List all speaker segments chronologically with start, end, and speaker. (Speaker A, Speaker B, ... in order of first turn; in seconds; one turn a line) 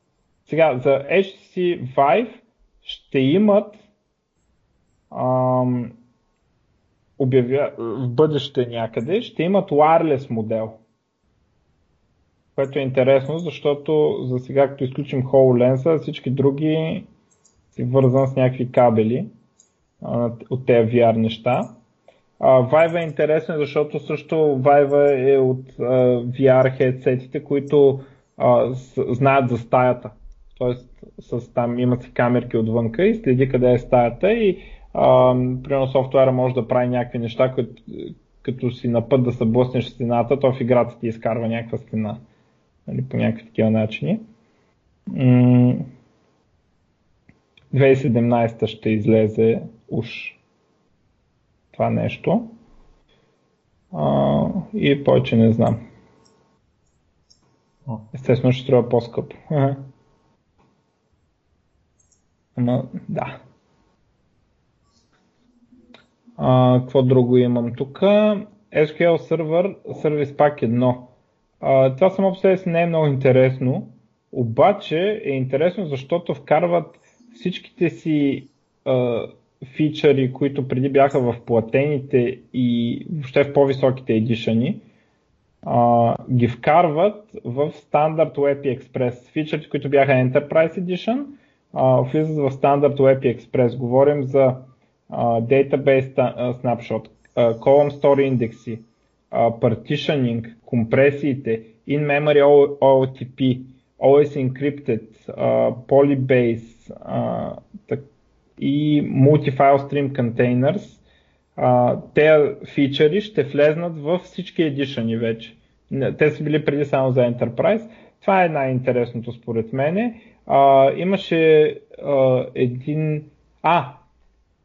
Speaker A: 0.5-3.8
Speaker A: 5.1-5.9
Speaker A: 7.2-10.8
Speaker A: 12.6-17.1
Speaker A: 17.7-19.3
Speaker A: 20.0-21.7
Speaker A: 22.4-42.2
Speaker A: 42.9-44.2
Speaker A: 45.1-45.9
Speaker A: 47.7-50.4
Speaker A: 51.7-52.5
Speaker A: 53.9-55.8
Speaker A: 58.1-59.9
Speaker A: 62.5-63.4
Speaker A: 66.4-84.8
Speaker A: 85.6-108.0
Speaker A: 108.6-111.0
Speaker A: 111.6-124.0